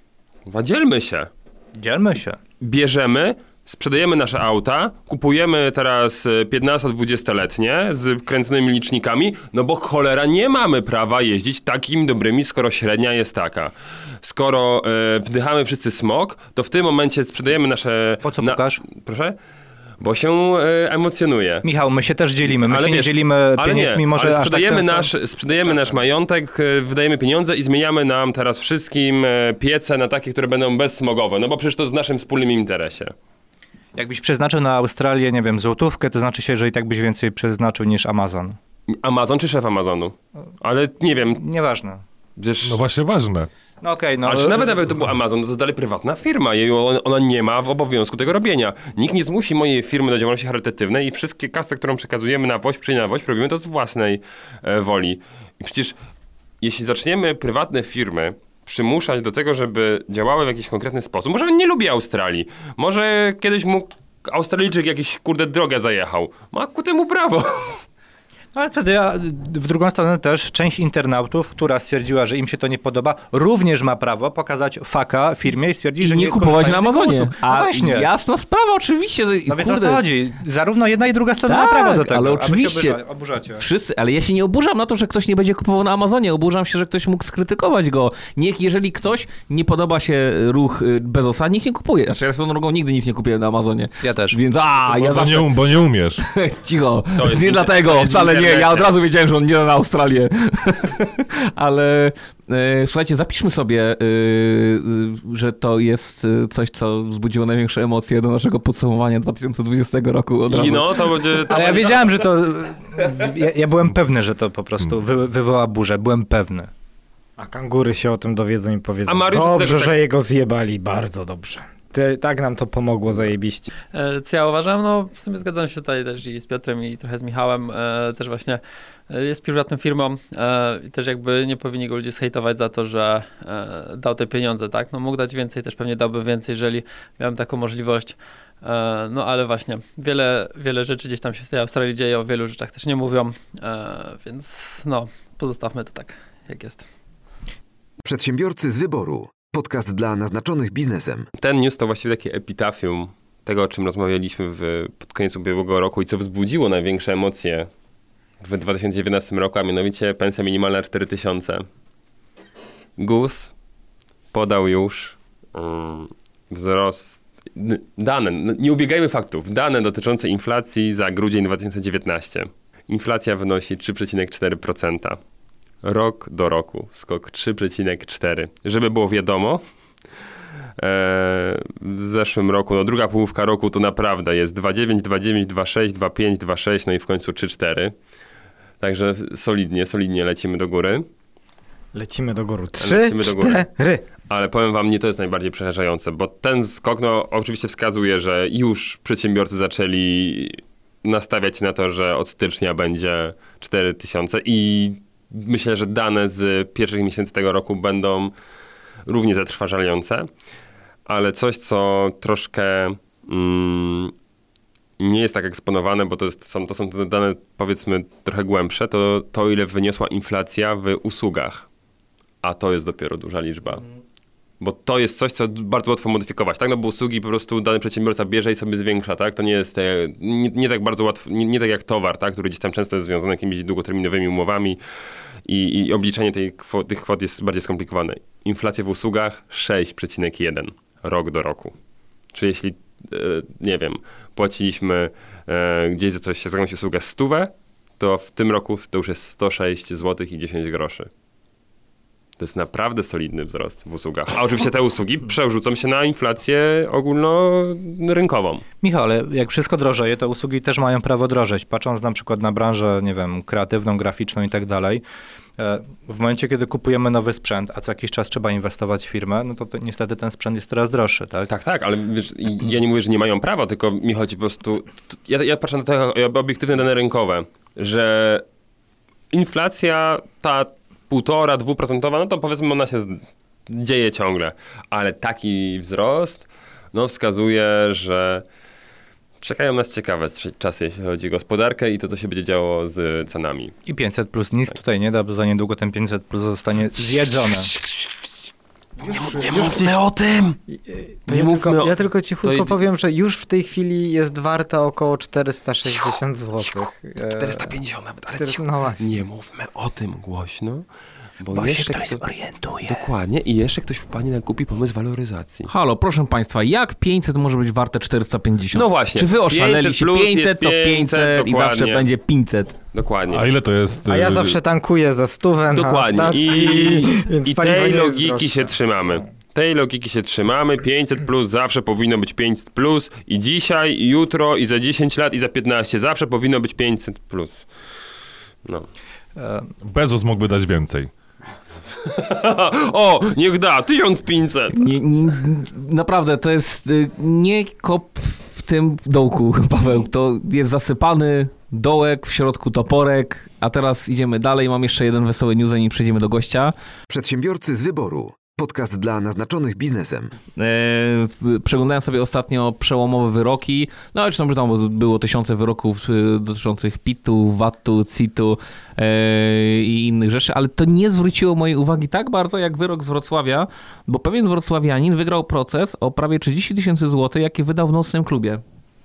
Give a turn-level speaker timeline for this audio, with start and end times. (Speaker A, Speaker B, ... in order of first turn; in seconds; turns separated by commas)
Speaker A: 0.5-1.3, Speaker B: 1.8-2.4, Speaker A: 2.6-19.4, Speaker B: 18.2-18.8, Speaker A: 20.0-21.6, Speaker B: 21.6-26.0, Speaker A: 22.6-33.1, Speaker B: 34.0-38.6, Speaker A: 38.9-41.4, Speaker B: 41.3-42.0, Speaker A: 42.4-42.8, Speaker C: 42.6-43.5, Speaker B: 43.8-44.8, Speaker A: 44.2-56.0, Speaker A: 56.6-67.8, Speaker B: 68.5-78.1, Speaker D: 76.0-80.0, Speaker B: 79.5-83.6, Speaker D: 81.5-83.0, Speaker D: 83.6-111.0, Speaker B: 94.0-94.4, Speaker C: 94.9-96.2, Speaker A: 97.1-98.9, Speaker A: 110.5-112.1, Speaker B: 111.4-116.7, Speaker E: 117.4-123.7, Speaker A: 119.0-120.0, Speaker F: 123.9-146.8, Speaker G: 148.0-151.3, Speaker A: 151.4-157.7, Speaker A: 158.4-161.7, Speaker A: 163.0-163.5, Speaker A: 164.3-175.2, Speaker A: 175.8-179.6, Speaker A: 180.8-187.9, Speaker A: 188.8-191.1, Speaker E: 191.9-194.0, Speaker A: 192.8-193.7, Speaker A: 194.3-208.3, Speaker A: 209.1-210.3, Speaker A: 211.1-214.1, Speaker A: 215.0-221.7, Speaker A: 222.4-223.8, Speaker A: 224.6-234.8, Speaker A: 235.4-241.7, Speaker A: 242.3-251.1, Speaker A: 252.4-258.6, Speaker B: 258.8-265.0, Speaker B: 265.6-271.5, Speaker A: 271.5-278.4, Speaker A: 279.3-288.4, Speaker A: 289.4-293.8, Speaker B: 293.9-297.7, Speaker A: 297.7-298.1, Speaker A: 299.0-300.6, Speaker E: 299.0-300.0, Speaker E: 300.7-309.2, Speaker A: 301.3-302.8, Speaker A: 305.9-310.9, Speaker A: 311.4-312.2, Speaker D: 311.5-313.0, Speaker A: 312.9-315.7, Speaker D: 315.7-322.8, Speaker A: 318.7-322.1, Speaker A: 322.9-323.5, Speaker C: 323.3-324.6, Speaker E: 324.1-329.2, Speaker A: 325.7-337.7, Speaker B: 339.4-339.7, Speaker C: 339.8-341.1, Speaker A: 342.0-344.8, Speaker D: 344.7-356.7, Speaker G: 357.1-360.3, Speaker D: 360.6-378.6